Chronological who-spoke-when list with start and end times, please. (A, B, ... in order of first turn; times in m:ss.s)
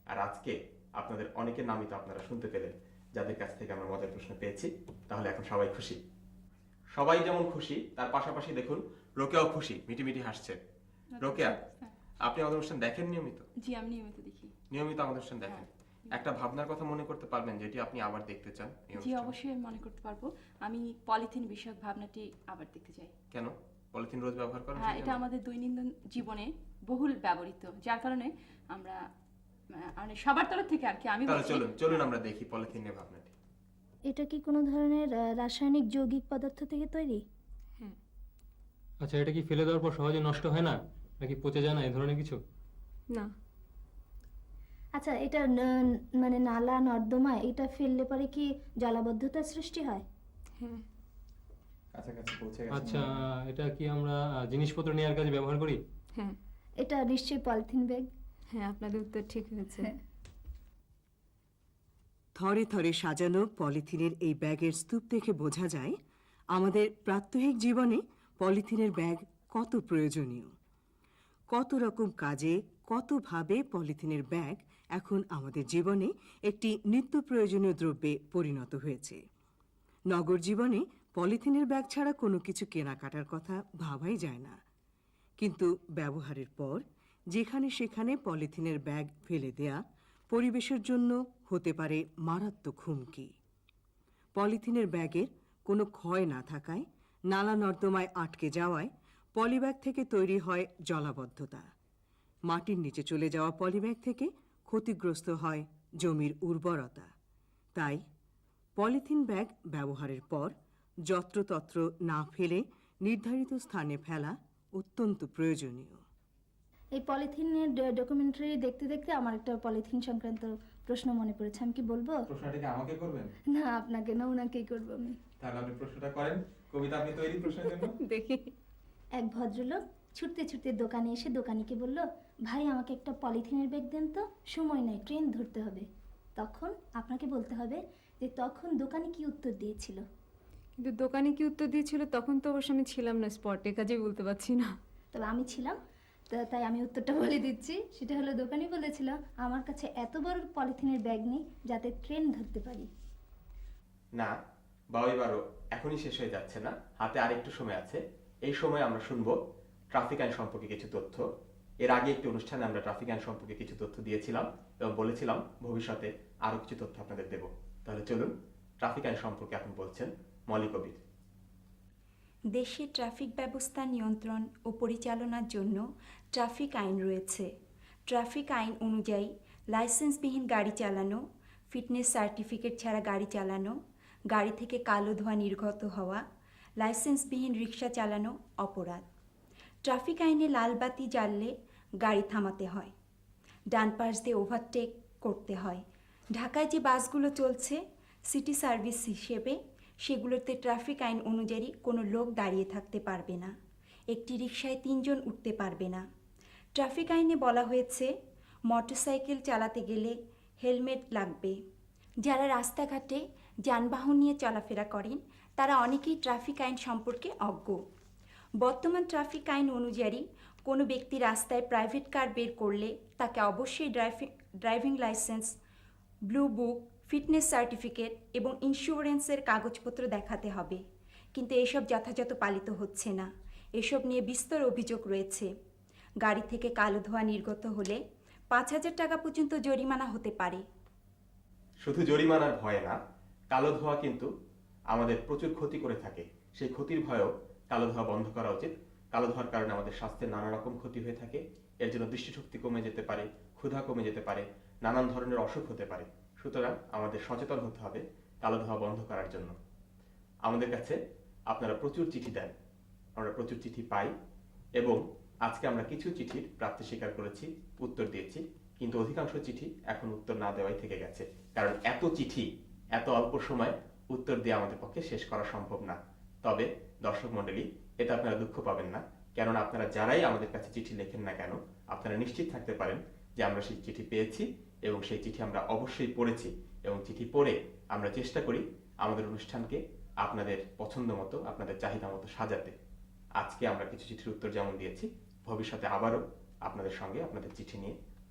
0:00.1-0:06.0 A
0:06.9-0:10.6 A
0:11.2-0:11.9 B
0:11.2-0:11.6 A
0:12.2-0:13.4 A
0:13.6-0:14.5 B
0:14.7-0:19.3 A
0:19.0-0:23.1 B
0:23.3-0:25.2 A
0:24.8-0:29.0 B
0:29.7-0:32.1 B
0:31.3-0:33.3 A
0:34.1-0:37.2 C
0:39.0-0:42.4 D
0:45.0-0:50.0 C
0:50.6-0:50.8 E
0:51.9-0:53.0 A
0:52.7-0:55.8 D
0:56.8-0:58.1 C
0:58.5-0:59.9 E
1:02.4-1:06.0 F
1:06.5-1:10.5 F
1:11.5-1:19.2 F
1:20.1-1:24.6 F
1:25.4-1:29.8 F
1:30.3-1:33.3 F
1:34.4-1:41.6 F
1:42.5-1:47.1 F
1:47.8-1:48.0 F
1:48.8-1:50.5 F
1:51.1-1:56.0 F
1:57.0-2:02.2 C
2:02.3-2:03.3 A
2:03.5-2:05.2 C
2:05.4-2:07.9 A
2:07.7-2:08.5 E
2:09.2-2:15.9 C
2:16.4-2:20.0 C
2:20.8-2:24.7 E
2:25.1-2:25.8 C
2:26.3-2:32.9 C
2:34.9-2:39.4 A
2:39.9-2:41.3 A
2:41.8-2:48.3 A
2:48.8-2:51.0 A
2:52.6-2:57.5 G
2:58.1-3:03.8 G
3:04.3-3:06.2 G
3:06.8-3:09.0 G
3:09.9-3:12.9 G
3:13.7-3:15.8 G
3:16.4-3:23.5 G
3:24.1-3:26.0 G
3:26.8-3:28.1 G
3:28.7-3:31.6 G
3:32.2-3:37.8 G
3:38.6-3:45.5 G
3:46.3-3:50.8 G
3:51.4-3:55.5 G
3:56.2-3:58.0 G
3:58.5-4:00.6 G
4:01.8-4:03.0 A
4:03.5-4:04.3 A
4:04.9-4:19.6 A
4:20.4-4:21.0 A
4:21.5-4:22.5 A
4:23.2-4:24.1 A
4:24.8-4:52.8 A
4:53.4-4:58.0 A